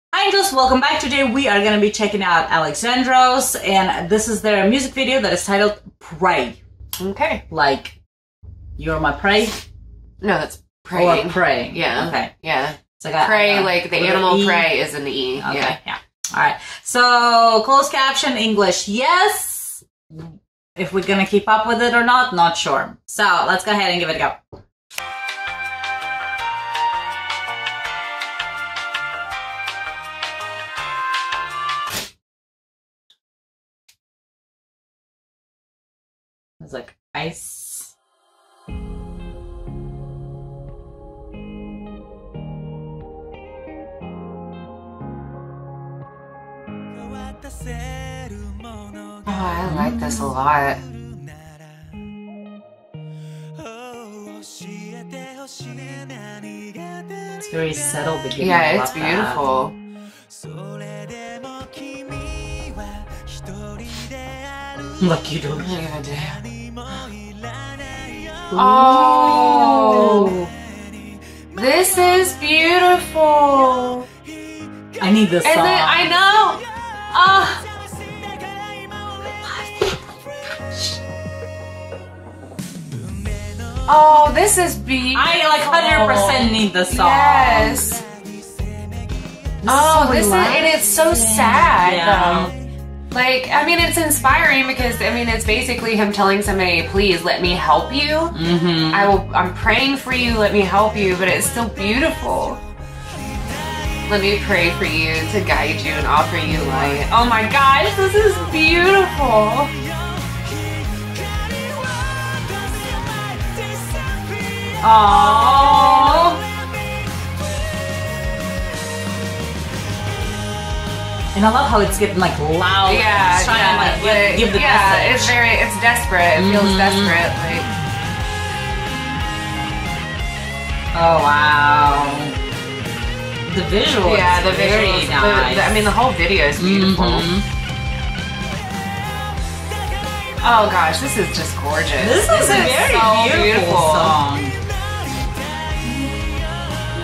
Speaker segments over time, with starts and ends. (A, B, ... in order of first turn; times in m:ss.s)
0:00.1-0:06.6 A
0:07.0-0:07.4 B
0:07.5-0:08.0 A
0:08.8-0:09.6 A
0:10.2-0:15.8 B
0:11.0-0:12.3 A
0:12.8-0:14.7 A
0:15.4-0:24.4 A
0:36.6-0:37.9 A
0:49.2-0:50.8 B
0:49.7-0:50.2 A
0:57.3-0:59.4 A
0:58.4-0:59.8 B
1:05.0-1:05.7 A
1:05.6-1:06.6 B
1:08.5-1:10.5 A
1:08.5-1:10.4 B
1:11.5-1:14.1 B
1:15.0-1:16.1 A
1:15.4-1:17.6 B
1:23.9-1:28.0 B
1:25.1-1:27.9 A
1:29.6-1:32.5 A
1:29.6-1:32.5 B
1:33.1-1:38.4 B
1:38.3-1:39.2 A
1:38.9-1:42.6 B
1:44.1-1:49.8 B
1:46.5-1:47.0 A
1:54.8-1:56.4 A
1:55.1-1:56.3 B
2:01.3-2:05.4 A
2:02.9-2:07.7 B
2:06.4-2:07.2 A
2:10.9-2:12.3 A
2:13.4-2:15.8 A
2:14.0-2:17.3 B
2:16.6-2:17.5 A
2:20.4-2:24.2 B
2:22.0-2:24.6 A